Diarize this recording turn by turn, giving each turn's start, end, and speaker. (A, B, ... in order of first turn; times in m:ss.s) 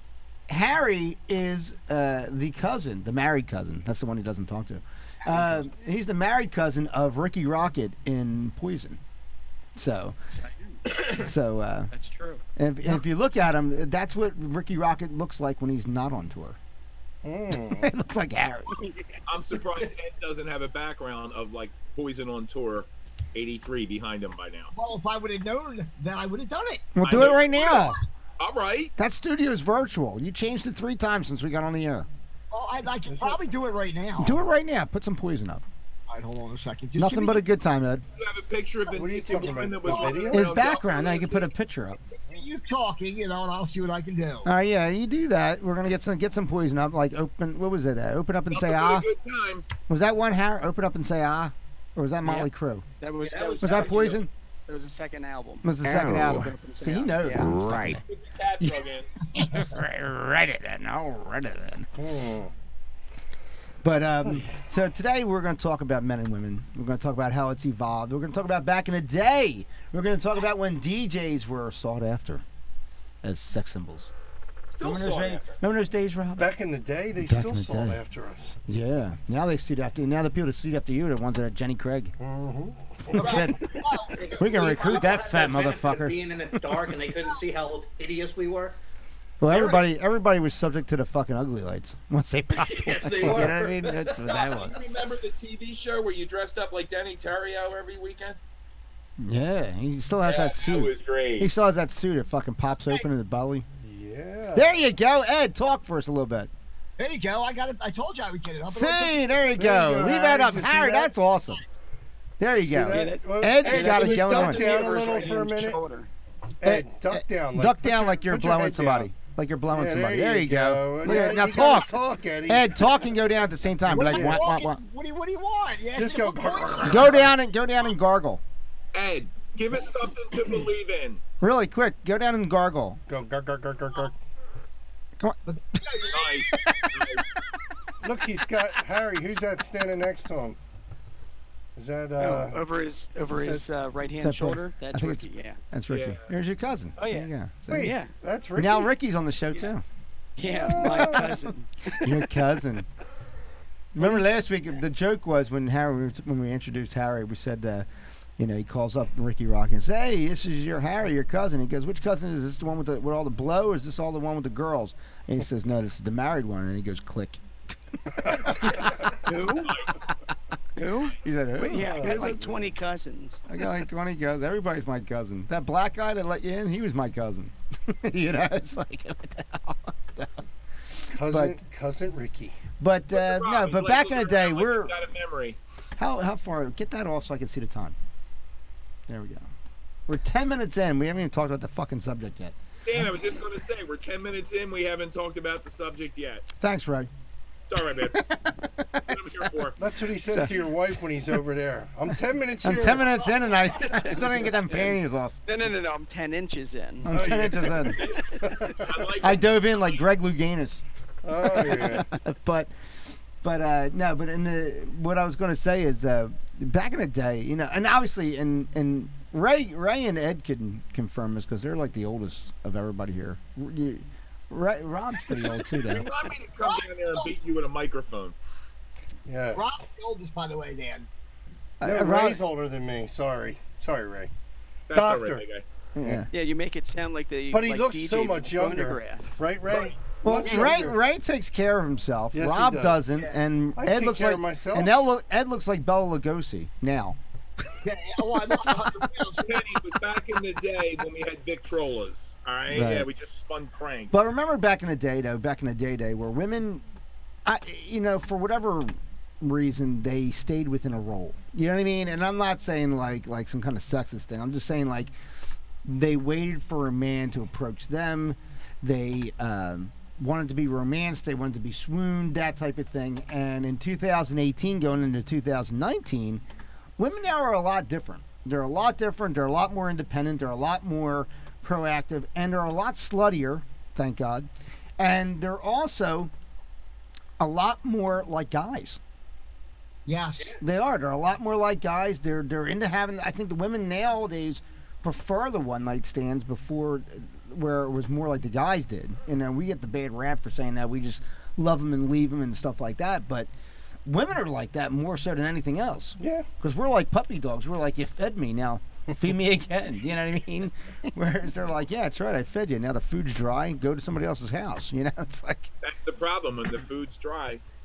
0:00.5-0:09.0 A
0:09.8-0:10.2 A
0:10.3-0:11.2 B
0:11.1-0:11.9 A
0:11.9-0:12.4 B
0:12.6-0:16.6 A
0:17.2-0:17.9 C
0:17.7-0:18.9 A
0:18.8-0:19.1 B
0:19.3-0:24.7 D
0:24.7-0:26.9 E
0:27.0-0:28.0 A
0:27.0-0:28.9 D
0:29.0-0:32.1 A
0:32.5-0:34.4 E
0:33.1-0:33.4 C
0:34.2-0:35.6 A
0:36.1-0:37.5 E
0:37.0-0:38.0 A
0:38.2-0:41.5 D
0:38.9-0:40.6 C
0:39.3-0:40.3 E
0:40.3-0:42.0 A
0:42.3-0:44.5 E
0:44.4-0:49.1 A
0:48.5-0:49.7 D
0:49.9-0:52.8 A
0:52.2-0:52.5 B
0:53.0-0:57.8 B
0:53.2-0:54.1 F
0:53.6-0:54.3 A
0:55.6-0:58.0 A
0:58.1-0:59.1 D
0:58.6-1:01.9 A
1:02.0-1:02.5 C
1:03.8-1:12.4 A
1:13.2-1:14.1 A
1:14.8-1:15.5 D
1:14.8-1:16.5 A
1:16.4-1:18.6 C
1:17.2-1:18.0 A
1:18.7-1:22.1 A
1:22.2-1:23.4 C
1:23.1-1:26.9 A
1:23.2-1:24.2 E
1:23.2-1:23.5 D
1:24.2-1:28.8 F
1:24.4-1:25.2 D
1:29.4-1:34.8 A
1:29.5-1:29.9 D
1:32.7-1:34.3 F
1:34.3-1:38.4 D
1:39.2-1:43.7 A
1:40.2-1:41.5 D
1:43.8-1:44.7 C
1:44.5-1:46.5 A
1:47.0-1:49.3 E
1:48.7-1:51.6 A
1:49.6-1:51.1 C
1:52.4-1:54.8 A
1:52.5-1:55.8 C
1:52.8-1:56.1 B
1:56.6-1:59.1 C
1:56.6-2:01.9 A
1:59.7-2:02.9 C
2:02.5-2:04.8 A
2:03.8-2:07.3 E
2:04.0-2:04.5 C
2:05.9-2:07.3 C
2:06.8-2:08.4 A
2:08.9-2:11.2 D
2:11.4-2:13.0 A
2:13.1-2:14.2 C
2:15.2-2:15.8 A
2:15.5-2:16.7 E
2:16.1-2:17.2 D
2:16.5-2:16.8 A
2:18.0-2:20.6 C
2:21.8-2:22.6 C
2:22.2-2:25.6 B
2:23.3-2:23.7 C
2:24.2-2:28.0 A
2:25.9-2:26.3 D
2:27.0-2:28.1 B
2:27.7-2:28.9 C
2:28.6-2:29.8 A
2:30.4-2:32.3 B
2:30.4-2:31.4 C
2:30.8-2:31.4 A
2:32.0-2:32.9 A
2:34.0-2:37.9 A
2:38.4-2:47.4 A
2:48.3-2:49.1 A
2:48.4-2:49.8 B
2:49.6-2:50.0 D
2:50.8-2:53.4 B
2:51.2-2:52.5 A
2:51.7-2:52.7 C
2:53.5-3:00.4 A
3:01.1-3:01.6 A
3:01.1-3:02.6 C
3:02.8-3:04.9 A
3:03.1-3:05.6 D
3:06.0-3:08.0 A
3:09.1-3:09.5 A
3:10.1-3:12.6 A
3:12.8-3:16.5 D
3:16.6-3:17.1 A
3:17.7-3:18.3 D
3:18.0-3:19.5 A
3:19.1-3:19.8 D
3:19.8-3:23.1 C
3:20.2-3:20.9 A
3:22.6-3:25.4 A
3:23.8-3:25.0 B
3:25.5-3:27.1 B
3:27.0-3:28.1 A
3:27.1-3:29.1 C
3:28.0-3:30.0 D
3:29.2-3:30.8 A
3:31.2-3:32.1 C
3:31.4-3:32.7 A
3:33.4-3:46.1 A
3:45.9-3:48.4 D
3:46.6-3:47.3 E
3:49.3-3:49.8 C
3:49.5-3:51.1 E
3:51.8-3:52.4 A
3:51.8-3:54.3 C
3:54.9-3:55.6 D
3:54.9-3:55.4 C
3:56.0-3:56.3 A
3:56.3-3:59.4 B
3:57.5-4:01.0 C
4:00.2-4:07.2 A
4:02.3-4:03.0 C
4:03.8-4:04.9 C
4:07.8-4:09.5 E
4:09.4-4:14.3 D
4:12.7-4:13.1 A
4:14.1-4:16.8 A
4:17.5-4:25.1 A
4:25.8-4:36.4 A
4:37.0-4:44.5 A
4:45.0-4:46.3 A
4:47.4-4:49.0 A
4:50.1-4:50.6 E
4:50.6-5:03.5 A
5:04.0-5:15.7 A
5:06.2-5:06.5 C
5:15.8-5:17.6 D